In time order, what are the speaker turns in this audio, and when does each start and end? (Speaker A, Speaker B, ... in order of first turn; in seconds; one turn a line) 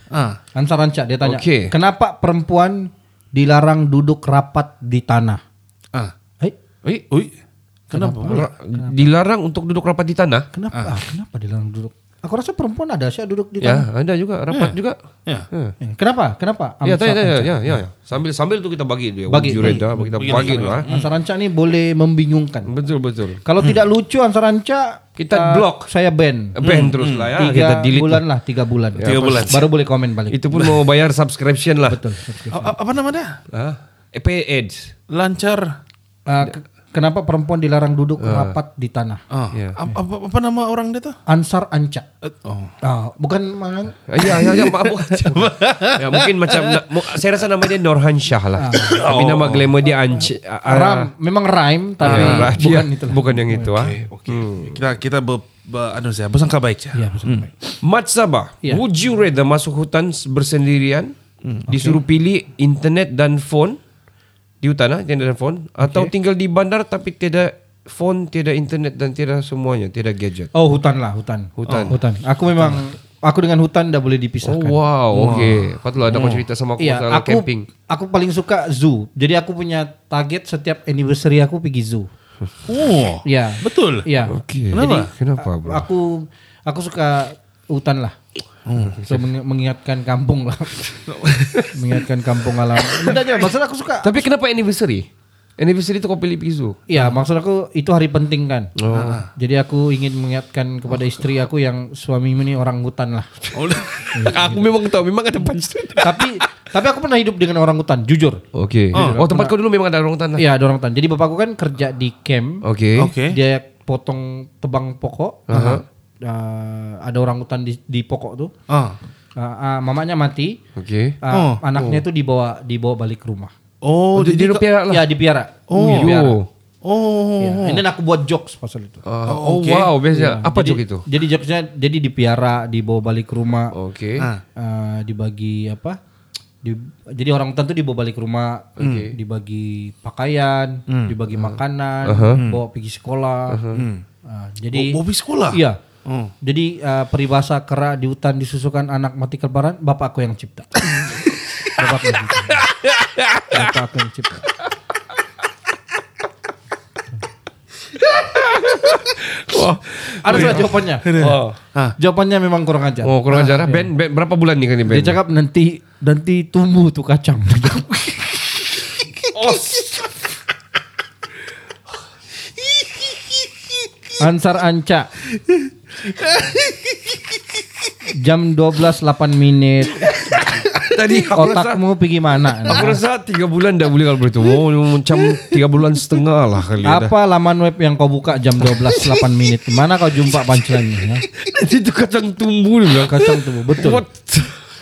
Speaker A: 0.1-0.4
Speaker B: 0.6-5.4
Speaker C: 1.2-1.7
Speaker A: 7.9-8.5
Speaker B: 7.9-8.9
Speaker C: 8.3-10.5
Speaker B: 10.5-13.9
Speaker C: 13.6-15.0
Speaker A: 14.5-15.5
Speaker B: 15.8-17.8
Speaker C: 16.8-20.9
Speaker B: 19.3-22.7
Speaker A: 19.6-21.1
Speaker C: 22.7-23.4
Speaker B: 23.4-26.6
Speaker C: 25.2-25.9
Speaker C: 26.6-28.2
Speaker A: 26.6-27.3
Speaker B: 27.4-30.7
Speaker C: 29.0-29.6
Speaker A: 29.0-29.7
Speaker C: 30.3-32.0
Speaker B: 31.9-32.7
Speaker A: 32.5-33.4
Speaker C: 33.5-34.9
Speaker A: 35.1-35.8
Speaker B: 36.3-39.2
Speaker C: 38.2-38.5
Speaker A: 39.3-41.2
Speaker C: 39.5-39.8
Speaker B: 41.3-42.0
Speaker A: 42.2-42.7
Speaker B: 42.8-44.0
Speaker C: 44.1-51.1
Speaker A: 44.2-46.8
Speaker B: 48.6-49.1
Speaker A: 48.9-49.8
Speaker B: 50.1-53.8
Speaker A: 52.0-52.7
Speaker C: 52.0-54.8
Speaker A: 53.7-57.5
Speaker B: 57.0-57.5
Speaker C: 57.8-61.1
Speaker C: 61.7-63.8
Speaker B: 61.7-62.0
Speaker C: 64.6-70.5
Speaker B: 65.8-66.1
Speaker B: 70.5-75.4
Speaker C: 71.6-72.0
Speaker A: 71.7-71.9
Speaker C: 74.5-77.7
Speaker A: 75.1-76.5
Speaker B: 76.8-82.1
Speaker A: 82.7-84.1
Speaker B: 83.2-88.2
Speaker C: 84.3-85.8
Speaker A: 84.7-85.1
Speaker A: 88.7-89.0
Speaker B: 89.1-91.0
Speaker A: 91.1-91.7
Speaker B: 91.7-94.2
Speaker C: 94.0-95.1
Speaker C: 95.6-96.8
Speaker B: 96.9-98.7
Speaker C: 98.8-99.2
Speaker A: 98.9-99.3
Speaker B: 99.4-103.3
Speaker A: 103.5-104.3
Speaker B: 104.1-104.6
Speaker C: 104.2-106.3
Speaker B: 106.0-108.4
Speaker C: 108.5-110.4
Speaker A: 108.9-109.2
Speaker B: 108.9-109.5
Speaker B: 110.4-112.6
Speaker C: 112.6-113.1
Speaker A: 113.0-113.4
Speaker B: 113.2-115.5
Speaker C: 115.5-115.8
Speaker A: 115.5-115.8
Speaker B: 116.2-118.5
Speaker A: 118.7-119.0
Speaker B: 119.4-120.6
Speaker C: 120.8-121.2
Speaker B: 121.2-123.5
Speaker A: 121.3-121.7
Speaker A: 123.8-124.7
Speaker C: 124.2-125.1
Speaker B: 124.9-126.4
Speaker A: 125.7-126.2
Speaker C: 125.8-126.5
Speaker A: 126.8-127.8
Speaker B: 127.4-129.0
Speaker C: 129.1-131.0
Speaker A: 129.3-129.9
Speaker B: 130.1-133.7
Speaker C: 133.7-134.3
Speaker B: 134.6-136.0
Speaker B: 136.6-143.6
Speaker C: 138.8-139.1
Speaker A: 138.8-139.1
Speaker A: 140.9-141.2
Speaker C: 142.1-142.4
Speaker C: 143.5-143.9
Speaker A: 143.7-144.0
Speaker B: 144.3-145.0
Speaker A: 144.7-146.3
Speaker B: 145.5-145.8
Speaker B: 146.4-150.8
Speaker B: 151.8-152.6
Speaker C: 153.0-153.6
Speaker B: 153.5-154.4
Speaker C: 158.6-161.6
Speaker B: 160.2-161.1
Speaker A: 160.3-162.0
Speaker B: 162.0-163.9
Speaker C: 163.0-165.2
Speaker B: 164.9-168.2
Speaker C: 169.3-169.8
Speaker B: 174.2-175.1
Speaker A: 176.1-176.8
Speaker B: 178.2-180.2
Speaker C: 180.8-181.8
Speaker B: 181.3-183.0
Speaker C: 182.7-187.1
Speaker B: 186.8-191.2
Speaker C: 191.4-194.6
Speaker B: 193.1-194.0